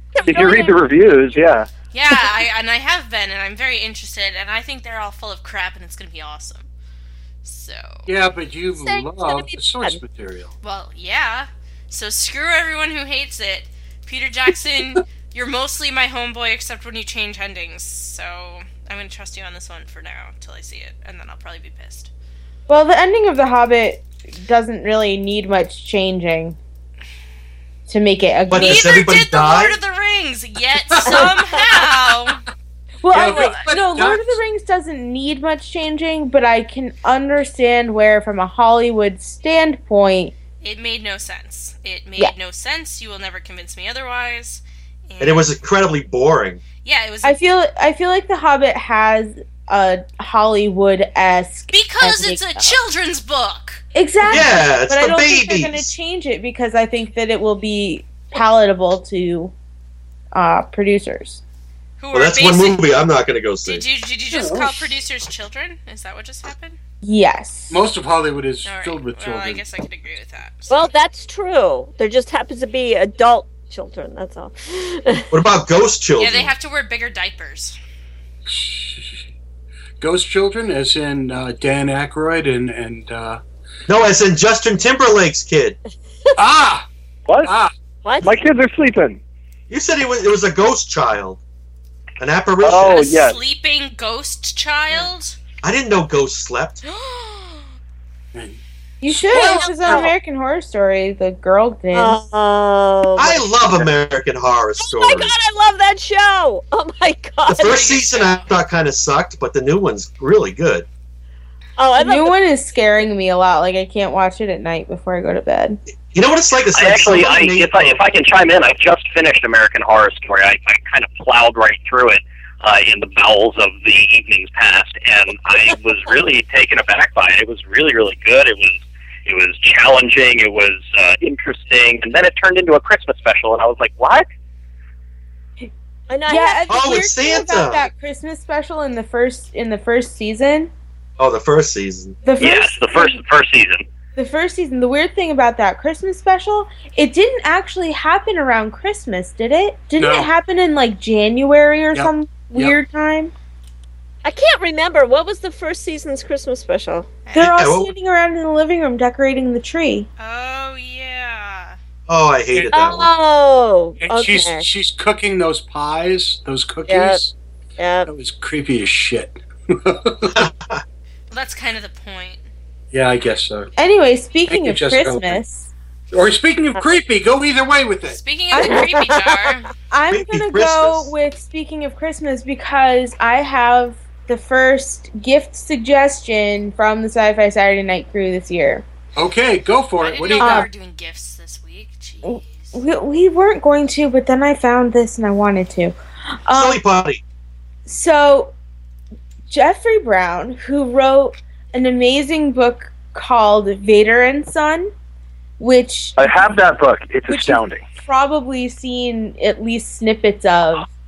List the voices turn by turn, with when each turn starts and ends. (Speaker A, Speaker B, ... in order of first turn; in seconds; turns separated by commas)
Speaker A: 0.2-1.7, Speaker B: 0.3-0.7, Speaker C: 1.9-6.7, Speaker C: 7.4-8.1, Speaker D: 8.1-10.5, Speaker E: 8.7-10.0, Speaker C: 10.6-22.1, Speaker B: 22.7-26.6, Speaker B: 27.9-28.9, Speaker F: 28.5-29.8, Speaker C: 28.5-32.4, Speaker D: 30.9-31.3, Speaker E: 31.1-31.6, Speaker B: 33.0-40.3, Speaker D: 33.1-34.4, Speaker C: 33.2-33.6, Speaker C: 40.6-45.5, Speaker F: 45.2-46.6, Speaker C: 46.8-47.4, Speaker B: 47.2-52.8, Speaker C: 51.7-53.8, Speaker B: 53.9-59.5, Speaker F: 54.3-55.9, Speaker B: 60.3-61.4, Speaker C: 62.0-63.1, Speaker F: 62.1-63.9, Speaker C: 63.6-66.8, Speaker D: 64.3-64.9, Speaker B: 67.0-67.8, Speaker D: 67.7-69.6, Speaker C: 68.7-70.9, Speaker E: 70.7-75.3, Speaker F: 75.3-76.5, Speaker C: 76.2-77.8, Speaker D: 78.5-79.2, Speaker D: 80.0-83.4, Speaker F: 83.9-85.8, Speaker D: 86.4-86.9, Speaker A: 87.3-87.5, Speaker D: 87.4-87.7, Speaker E: 88.0-88.3, Speaker A: 88.2-89.2, Speaker F: 89.7-91.4, Speaker F: 92.2-93.1, Speaker A: 92.6-93.4, Speaker C: 92.8-95.4, Speaker F: 95.6-96.8, Speaker E: 96.9-97.6, Speaker D: 98.3-98.6, Speaker B: 99.0-102.2, Speaker E: 99.3-100.1, Speaker D: 99.3-99.6, Speaker E: 101.9-103.8, Speaker F: 103.2-105.3, Speaker E: 104.8-107.9, Speaker F: 107.5-110.9, Speaker C: 107.6-108.5, Speaker E: 111.8-112.3, Speaker B: 112.0-115.8, Speaker F: 116.1-118.0, Speaker G: 116.7-134.3, Speaker E: 136.1-136.7, Speaker B: 136.3-140.7, Speaker F: 136.7-137.9, Speaker F: 141.2-142.2, Speaker B: 142.2-143.2, Speaker G: 142.4-143.8, Speaker B: 144.2-153.3, Speaker D: 150.0-150.3, Speaker D: 151.9-152.8, Speaker E: 154.2-157.1, Speaker C: 157.3-157.6, Speaker B: 157.3-160.1, Speaker F: 157.4-157.9, Speaker C: 160.2-161.8, Speaker F: 162.1-163.1, Speaker E: 162.7-164.7, Speaker D: 164.0-167.3, Speaker E: 166.9-167.2, Speaker E: 167.8-168.1, Speaker D: 168.1-170.5, Speaker F: 170.3-170.8, Speaker C: 171.3-172.4, Speaker D: 172.9-173.7, Speaker B: 173.8-175.7, Speaker D: 174.5-175.4, Speaker D: 176.1-178.2, Speaker C: 178.1-179.7, Speaker B: 178.5-178.9, Speaker E: 178.6-179.5, Speaker B: 179.9-188.8, Speaker F: 180.1-181.1, Speaker D: 189.2-190.7, Speaker C: 190.0-192.8, Speaker B: 190.4-190.7, Speaker B: 192.2-196.8, Speaker F: 196.5-197.2, Speaker B: 197.9-198.5, Speaker B: 199.5-204.9, Speaker B: 205.6-206.3, Speaker A: 206.2-207.8, Speaker B: 207.3-210.9